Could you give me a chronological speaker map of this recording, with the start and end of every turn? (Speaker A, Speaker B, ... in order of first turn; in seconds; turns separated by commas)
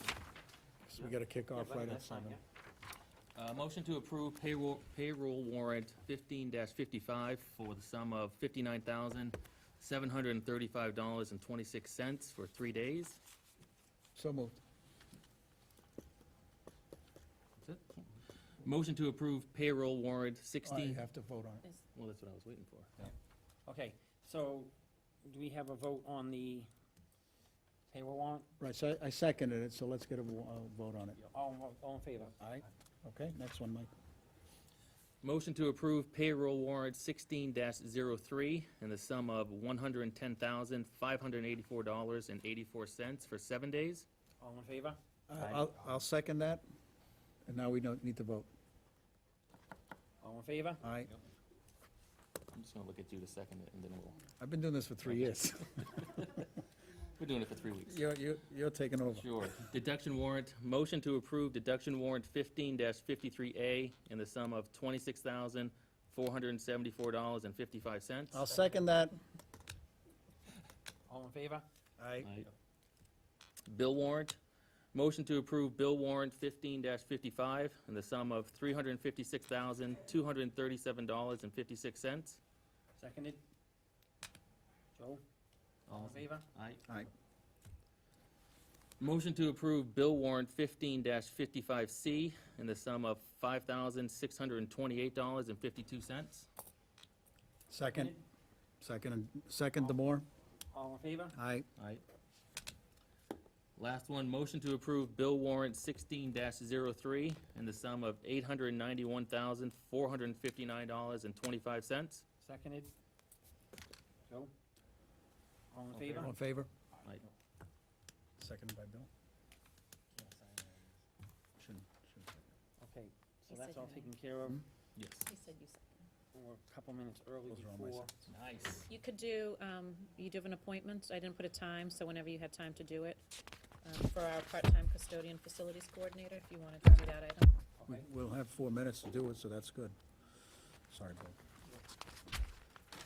Speaker A: 0.8-2.4, Speaker B: 1.0-2.4, Speaker C: 3.4-13.2, Speaker A: 14.2-14.6, Speaker C: 17.6-18.1, Speaker C: 18.6-21.0, Speaker A: 20.6-21.6, Speaker C: 21.9-22.9, Speaker B: 23.7-24.7, Speaker B: 25.2-26.7, Speaker B: 27.9-28.5, Speaker A: 28.6-31.2, Speaker B: 31.2-32.5, Speaker A: 32.4-33.9, Speaker C: 35.2-44.1, Speaker B: 44.4-45.7, Speaker A: 45.3-46.6, Speaker A: 47.5-48.5, Speaker B: 50.2-50.8, Speaker A: 50.8-51.1, Speaker C: 52.5-54.2, Speaker A: 54.4-56.0, Speaker C: 55.0-55.4, Speaker C: 56.0-56.4, Speaker C: 57.2-58.0, Speaker A: 57.9-59.3, Speaker C: 59.1-68.4, Speaker A: 68.3-69.2, Speaker B: 68.5-68.9, Speaker B: 71.1-71.7, Speaker A: 72.0-72.3, Speaker C: 72.2-72.5, Speaker C: 73.7-74.4, Speaker C: 74.9-82.4, Speaker B: 83.0-83.4, Speaker B: 85.0-85.2, Speaker C: 85.9-86.8, Speaker B: 85.9-86.5, Speaker C: 89.0-96.5, Speaker A: 97.7-98.2, Speaker B: 97.9-98.2, Speaker A: 98.8-100.3, Speaker B: 100.7-101.4, Speaker A: 101.3-101.7, Speaker C: 101.8-102.0, Speaker C: 103.8-112.2, Speaker B: 112.4-112.9, Speaker B: 115.7-116.3, Speaker A: 116.1-116.7, Speaker A: 118.4-119.1, Speaker B: 120.1-121.0, Speaker A: 121.6-122.5, Speaker B: 122.8-124.7, Speaker D: 123.5-124.1, Speaker C: 125.0-125.3, Speaker D: 125.3-126.0, Speaker B: 126.3-128.1, Speaker A: 127.5-128.1, Speaker C: 128.2-128.9, Speaker D: 128.9-133.2, Speaker D: 133.8-137.5, Speaker B: 137.8-138.1, Speaker A: 137.9-140.0, Speaker A: 140.9-141.4